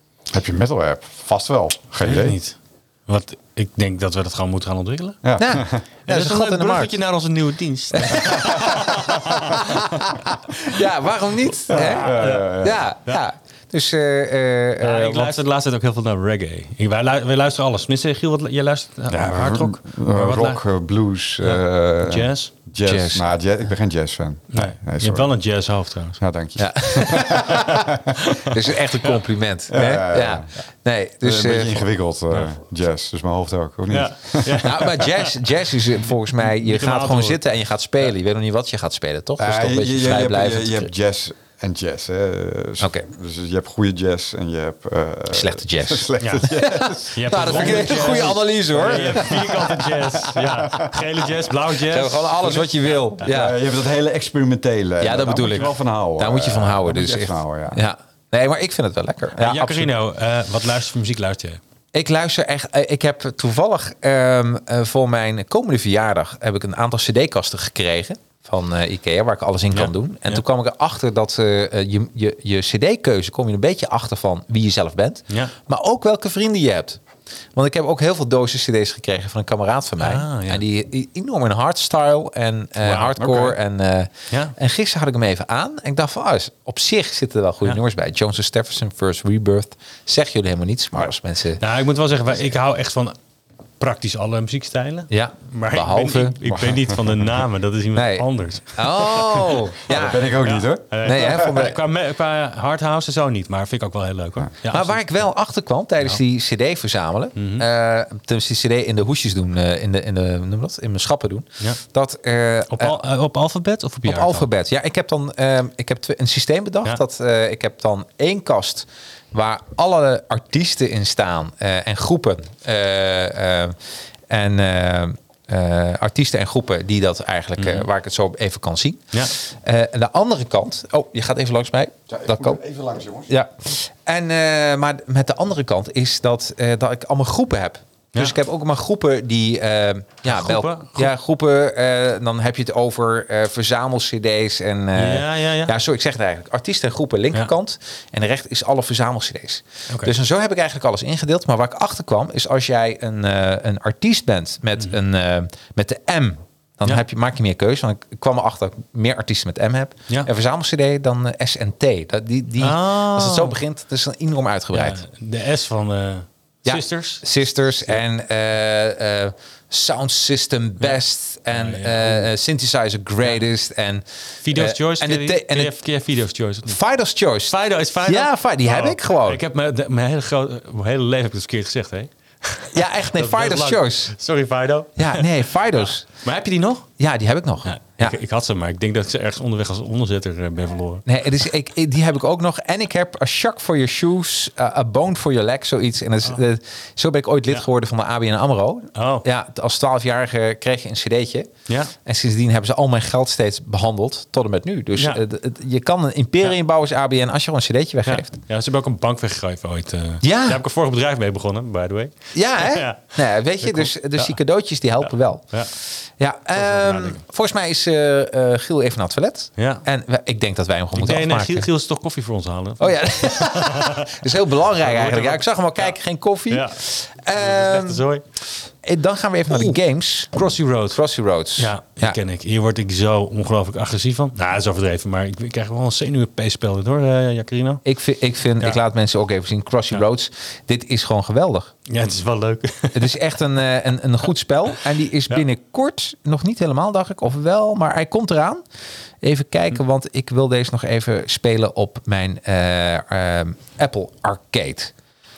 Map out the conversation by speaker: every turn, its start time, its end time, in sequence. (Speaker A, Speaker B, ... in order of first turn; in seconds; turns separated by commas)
Speaker A: 0.3-2.4, Speaker B: 2.0-5.2, Speaker A: 5.2-5.8, Speaker C: 5.4-7.0, Speaker B: 6.1-9.9, Speaker C: 7.9-15.3, Speaker A: 11.7-12.8, Speaker B: 11.7-13.2, Speaker B: 14.8-20.6, Speaker A: 19.1-25.3, Speaker B: 21.4-22.5, Speaker C: 22.8-23.2, Speaker B: 24.5-26.2, Speaker A: 26.2-28.1, Speaker C: 26.6-31.9, Speaker B: 27.5-28.5, Speaker A: 29.7-30.5, Speaker A: 31.2-34.9, Speaker B: 33.9-35.3, Speaker C: 34.6-40.9, Speaker B: 36.5-37.4, Speaker A: 39.4-51.0, Speaker C: 42.8-43.1, Speaker C: 45.3-49.7, Speaker B: 46.2-52.7, Speaker C: 51.9-53.6, Speaker A: 53.2-57.8, Speaker C: 55.0-59.9, Speaker B: 59.4-61.6, Speaker C: 61.9-77.0, Speaker B: 69.7-70.4, Speaker C: 77.5-91.6, Speaker B: 80.0-80.6, Speaker B: 82.8-83.1, Speaker A: 83.2-83.6, Speaker B: 91.6-93.2, Speaker B: 93.8-105.0, Speaker C: 95.1-96.4, Speaker A: 96.5-96.9, Speaker C: 98.0-100.3, Speaker A: 99.9-101.5, Speaker C: 101.0-101.8, Speaker C: 104.7-113.0, Speaker B: 107.4-107.7, Speaker B: 112.7-114.5, Speaker C: 114.0-123.8, Speaker C: 124.3-132.6, Speaker B: 127.6-127.9, Speaker A: 132.1-133.3, Speaker C: 133.3-165.0, Speaker B: 140.3-141.1, Speaker B: 145.0-145.7, Speaker B: 162.6-163.6, Speaker B: 164.7-167.2, Speaker C: 166.7-175.8, Speaker B: 170.8-172.3, Speaker B: 174.4-176.8, Speaker C: 176.7-179.4, Speaker B: 177.5-186.9, Speaker C: 182.7-184.1, Speaker C: 185.0-186.1, Speaker C: 187.0-188.2, Speaker B: 187.7-191.1, Speaker C: 191.1-201.5, Speaker B: 198.9-199.3, Speaker B: 201.7-201.9, Speaker C: 202.0-208.3, Speaker B: 205.0-205.2, Speaker B: 208.1-214.3, Speaker C: 210.2-210.6, Speaker C: 212.3-221.7, Speaker B: 215.0-215.7, Speaker B: 216.6-217.2, Speaker B: 219.6-219.8, Speaker B: 220.9-224.2, Speaker C: 222.8-228.1, Speaker B: 224.8-225.9, Speaker B: 226.5-226.8, Speaker B: 227.3-228.2, Speaker C: 228.8-230.3, Speaker B: 229.5-229.8, Speaker B: 230.3-231.0, Speaker C: 230.9-232.2, Speaker B: 231.6-237.8, Speaker C: 237.9-241.7, Speaker B: 241.9-243.1, Speaker C: 242.9-248.6, Speaker C: 249.2-254.9